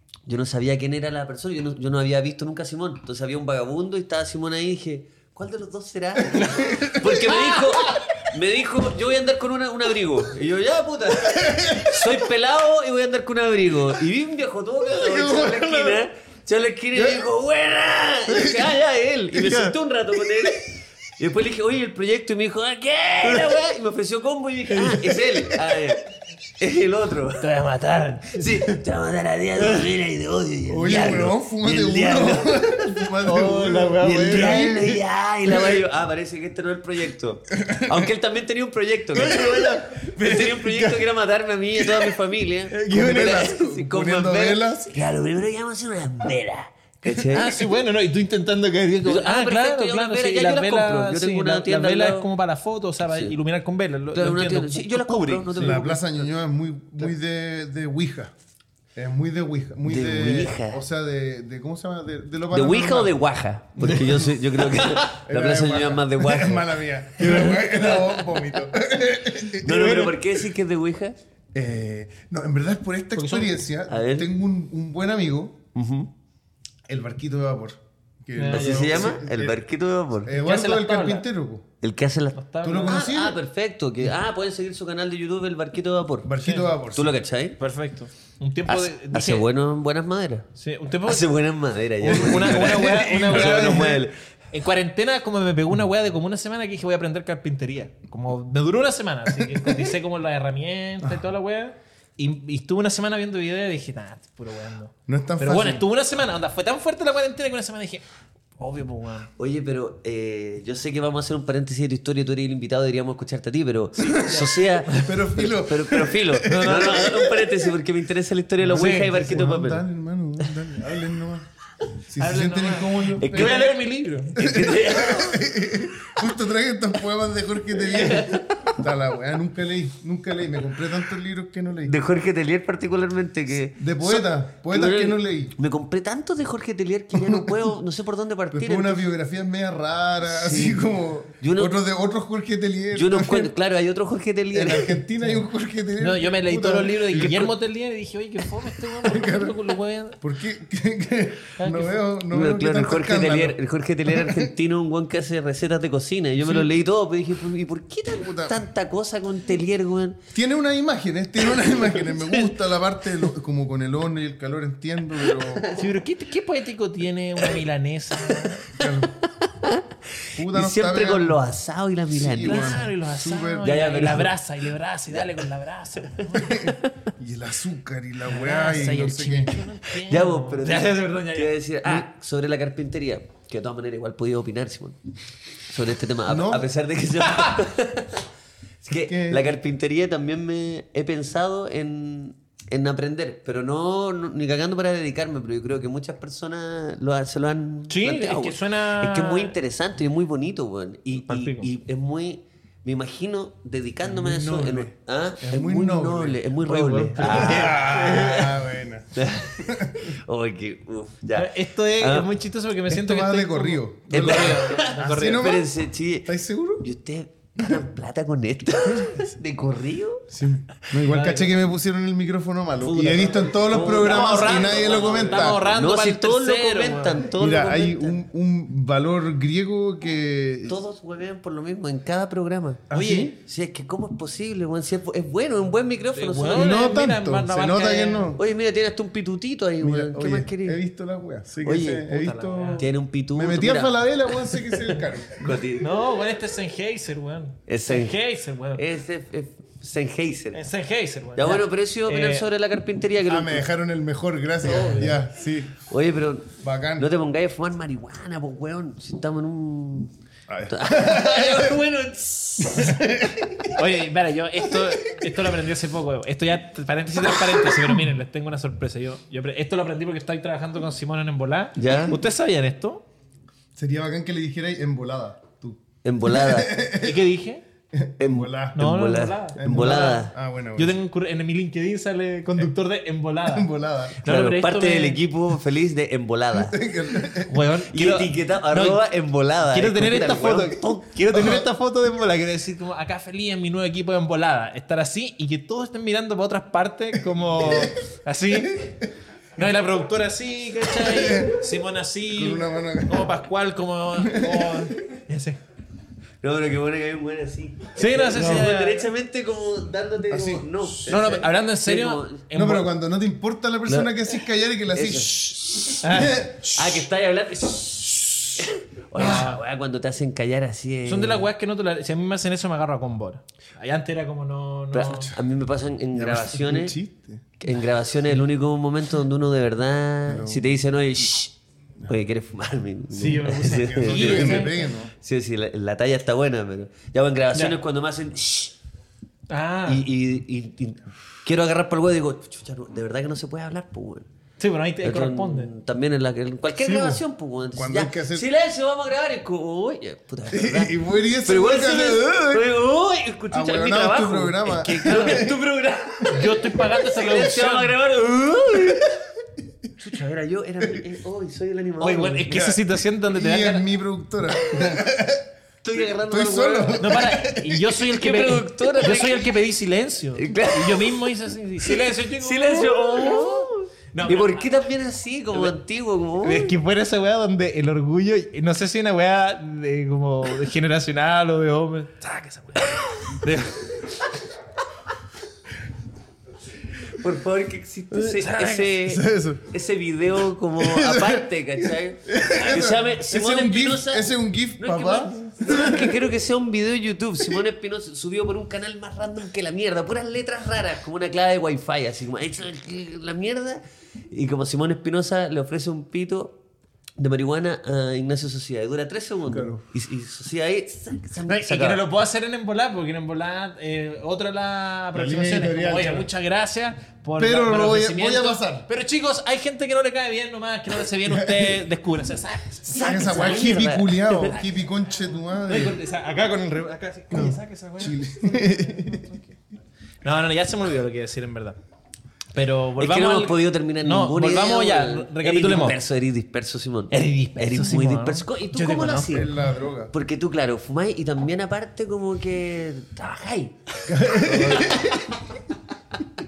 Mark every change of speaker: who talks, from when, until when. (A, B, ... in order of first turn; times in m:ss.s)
0:00.3-0:27.5 A
0:06.3-0:07.6 B
0:11.2-0:12.2 B
0:14.8-0:16.0 B
0:16.9-0:17.2 B
0:18.3-0:18.8 B
0:19.4-0:19.6 C
0:25.3-0:25.8 B
0:27.4-0:28.7 C
0:28.3-0:33.1 A
0:30.7-0:35.8 B
0:33.2-0:35.0 C
0:34.0-0:47.6 A
0:37.5-0:38.1 B
0:39.2-0:41.0 B
0:39.3-0:39.7 C
0:41.8-0:42.1 B
0:42.7-0:44.9 B
0:47.3-0:55.8 C
0:49.0-0:52.3 A
0:53.1-0:53.4 A
0:54.1-0:56.0 A
0:55.6-0:58.3 B
0:58.9-1:03.2 B
0:59.8-1:00.8 A
1:02.5-1:08.6 A
1:03.8-1:04.4 B
1:04.7-1:05.1 C
1:05.1-1:10.5 B
1:09.5-1:11.2 A
1:11.5-1:15.6 B
1:13.2-1:13.6 C
1:13.9-1:14.3 A
1:15.7-1:16.1 A
1:16.9-1:19.6 B
1:18.4-1:19.2 C
1:18.5-1:20.3 A
1:20.2-1:21.6 B
1:20.4-1:21.2 C
1:21.8-1:26.3 A
1:22.3-1:23.0 C
1:22.6-1:23.4 B
1:26.2-1:27.2 B
1:26.4-1:26.8 C
1:26.9-1:27.6 A
1:27.6-1:29.4 C
1:28.6-1:30.4 A
1:30.6-1:31.3 C
1:31.0-1:34.1 A
1:32.0-1:48.0 C
1:32.1-1:34.0 B
1:45.1-1:45.8 B
1:48.6-1:49.3 C
1:49.4-1:59.8 A
1:54.1-1:57.7 B
1:58.6-1:59.3 C
1:58.7-2:01.5 B
2:02.1-2:03.7 B
2:02.2-2:04.6 C
2:03.2-2:03.7 A
2:04.4-2:05.4 A
2:04.4-2:11.9 B
2:07.9-2:08.6 A
2:11.8-2:19.1 A
2:13.7-2:15.5 B
2:17.1-2:17.7 B
2:18.5-2:23.5 B
2:20.3-2:20.8 A
2:21.4-2:21.8 A
2:22.9-2:25.0 A
2:24.5-2:27.5 B
2:26.0-2:30.2 C
2:28.9-2:29.6 B
2:30.2-2:34.5 B
2:31.6-2:32.0 C
2:32.3-2:40.2 A
2:36.4-2:36.7 C
2:38.2-2:38.6 B
2:40.3-2:45.7 B
2:41.4-2:42.5 A
2:45.7-2:48.7 C
2:48.3-2:52.9 A
2:48.7-2:49.2 B
2:50.4-2:51.4 B
2:52.1-2:53.8 B
2:52.3-2:56.6 C
2:53.6-2:54.4 A
2:55.1-2:55.3 A
2:56.2-2:56.9 A
2:56.3-2:59.6 B
2:58.2-3:01.5 C
3:00.0-3:05.0 A
3:05.7-3:08.2 A
3:06.3-3:06.7 B
3:07.3-3:07.6 C
3:08.8-3:28.6 A
3:09.0-3:09.5 B
3:17.9-3:19.5 C
3:21.3-3:21.7 C
3:24.0-3:26.4 B
3:26.6-3:28.5 C
3:27.2-3:30.1 B
3:29.1-3:32.3 A
3:31.4-3:35.6 C
3:32.9-3:35.7 B
3:34.1-3:40.3 A
3:36.2-3:36.8 B
3:40.3-3:45.7 B
3:41.1-3:41.5 C
3:42.8-3:48.2 A
3:43.7-3:47.3 C
3:47.3-3:50.8 B
3:50.7-3:56.8 A
3:52.9-3:53.4 B
3:52.9-3:53.3 C
3:56.2-3:58.4 C
3:56.5-3:58.4 B
3:58.4-4:00.8 A
3:59.8-4:05.7 B
4:01.6-4:02.1 A
4:02.1-4:02.8 C
4:02.8-4:05.9 A
4:05.8-4:08.8 C
4:07.7-4:08.2 A
4:08.8-4:10.6 A
4:10.5-4:12.5 C
4:11.4-4:13.6 A
4:13.3-4:15.8 B
4:14.6-4:15.1 C
4:14.7-4:15.0 A
4:15.9-4:20.1 A
4:16.5-4:17.1 B
4:20.5-4:21.8 B
4:20.7-4:23.0 A
4:22.6-4:23.9 B
4:23.7-4:33.0 C
4:24.6-4:25.4 B
4:31.8-4:32.2 A
4:33.8-4:37.3 B
4:36.0-4:36.8 A
4:37.0-4:37.6 C
4:37.9-4:38.8 B
4:38.2-4:40.3 A
4:38.8-4:43.7 C
4:39.6-4:41.0 B
4:43.4-4:44.2 B
4:44.2-4:45.2 C
4:44.2-4:46.8 A
4:46.5-4:47.6 B
4:47.4-4:49.0 C
4:47.9-4:50.8 A
4:49.6-4:58.9 C
4:51.3-4:51.6 B
4:57.6-4:58.0 B
4:58.7-4:59.1 B
4:59.6-5:05.6 C
5:00.9-5:01.6 B
5:02.3-5:03.3 B
5:04.2-5:04.9 B
5:06.4-5:12.4 A
5:08.0-5:09.1 C
5:10.3-5:11.2 B
5:11.1-5:12.9 C
5:12.5-5:17.1 B
5:13.9-5:14.4 A
5:14.9-5:16.0 A
5:16.0-5:16.4 C
5:16.6-5:21.5 A
5:19.1-5:19.6 C
5:19.2-5:19.5 B
5:21.0-5:25.3 C
5:24.9-5:27.0 A
5:26.1-5:27.6 B
5:27.6-5:31.5 A
5:30.3-5:30.7 B
5:32.1-5:38.7 A
5:33.1-5:34.8 C
5:33.5-5:35.1 B
5:39.5-5:40.0 C
5:39.8-5:44.3 A
5:44.6-5:45.7 C
5:45.0-5:59.1 A
5:46.8-5:47.2 B
5:47.8-5:48.5 B
5:50.5-5:52.7 B
5:53.5-5:55.6 B
5:55.0-5:55.4 C
5:56.3-5:58.0 C
5:58.8-5:59.2 B
6:00.0-6:02.6 A
6:02.0-6:03.9 C
6:02.5-6:05.5 B
6:04.5-6:05.1 A
6:05.8-6:07.3 A
6:06.0-6:08.2 B
6:07.0-6:14.7 C
6:08.1-6:09.5 A
6:10.4-6:11.2 A
6:11.8-6:16.7 A
6:16.4-6:24.2 C
6:27.1-6:46.6 A
6:28.1-6:29.0 C
6:29.0-6:29.7 B
6:30.8-6:36.2 B
6:47.2-6:52.0 A
6:49.5-6:49.8 B
6:51.5-7:03.7 C
6:55.1-6:56.3 B
6:57.4-6:58.9 B
7:01.2-7:01.8 B
7:02.9-7:04.6 A
7:03.0-7:06.0 B
7:05.6-7:09.4 C
7:07.3-7:09.3 B
7:10.2-7:11.8 C
7:12.5-7:16.0 C
7:13.0-7:19.5 A
7:17.1-7:19.5 C
7:19.3-7:20.1 B
7:20.1-7:25.2 A
7:24.0-7:25.3 B